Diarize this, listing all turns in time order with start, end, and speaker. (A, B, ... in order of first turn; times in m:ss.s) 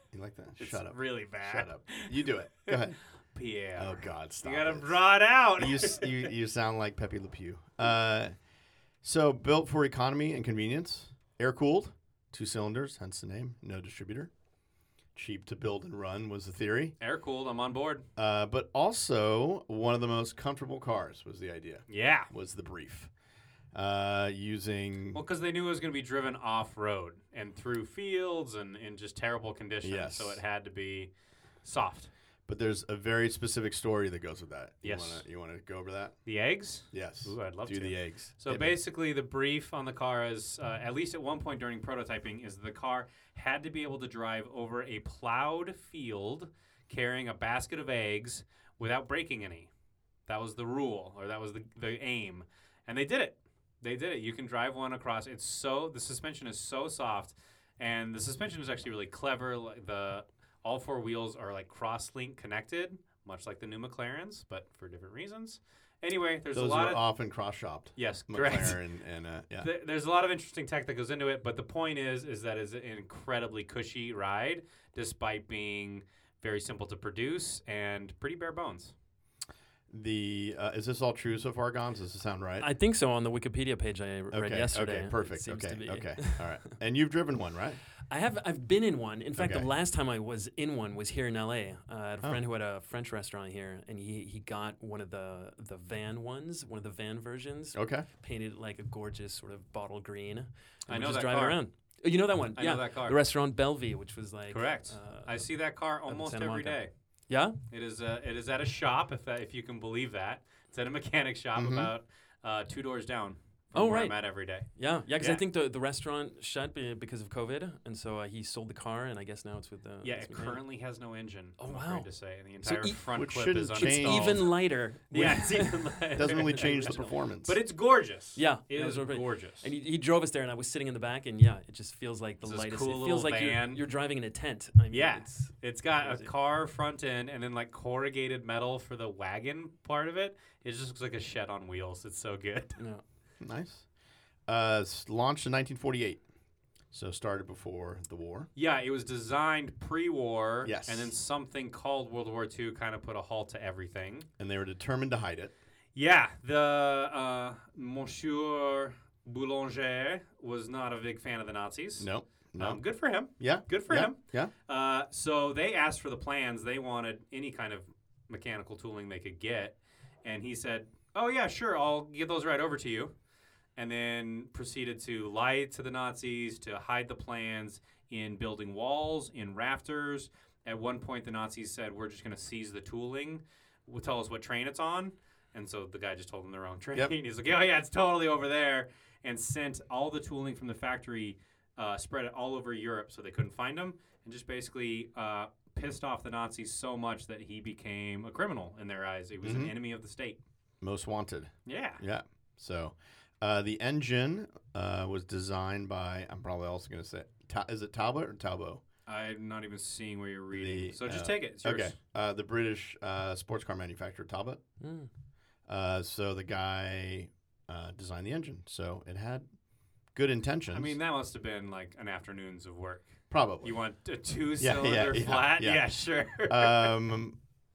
0:00.1-0:03.0 A
0:00.6-0:06.2 B
0:03.8-0:05.0 A
0:05.6-0:08.3 A
0:09.0-0:14.3 A
0:15.2-0:16.9 A
0:17.0-0:18.1 B
0:18.2-0:23.1 A
0:21.9-0:22.3 B
0:23.7-0:25.2 A
0:25.1-0:31.1 B
0:29.8-0:30.4 A
0:31.6-0:32.1 B
0:32.5-0:36.2 A
0:34.8-0:35.2 B
0:36.2-0:49.7 B
0:36.9-0:38.8 A
0:50.3-1:07.0 B
1:06.5-1:09.7 A
1:08.0-1:08.8 B
1:09.6-1:18.9 B
1:19.9-1:22.7 A
1:22.6-1:26.7 C
1:24.3-1:27.8 A
1:28.1-1:45.5 C
1:29.4-1:29.7 A
1:37.7-1:38.1 A
1:40.9-1:41.6 B
1:42.6-1:43.2 B
1:44.5-1:46.9 B
1:46.1-1:47.6 C
1:47.7-1:54.7 B
1:51.6-1:51.9 A
1:53.7-1:54.2 C
1:54.8-2:00.6 C
2:00.0-2:04.5 B
2:01.6-2:02.1 C
2:02.6-2:03.0 C
2:03.1-2:04.5 A
2:03.7-2:07.2 C
2:05.1-2:09.7 B
2:06.1-2:07.6 A
2:08.4-2:16.3 C
2:12.4-2:13.8 B
2:14.9-2:22.8 B
2:22.8-2:23.0 C
2:23.4-2:23.9 A
2:24.5-2:26.2 A
2:26.9-2:28.5 A
2:28.6-2:34.3 B
2:30.6-2:31.1 A
2:34.4-2:35.5 A
2:35.9-2:53.1 B
2:42.0-2:42.8 A
2:43.4-2:44.5 A
2:53.8-3:20.4 B
3:19.4-3:19.7 A
3:20.8-3:28.8 A
3:21.6-3:22.0 B
3:29.1-3:31.9 B
3:30.5-3:34.6 A
3:34.8-3:35.1 C
3:35.7-3:39.5 A
3:40.1-3:41.0 A
3:40.7-3:46.9 B
3:43.3-3:43.8 A
3:44.6-3:47.4 A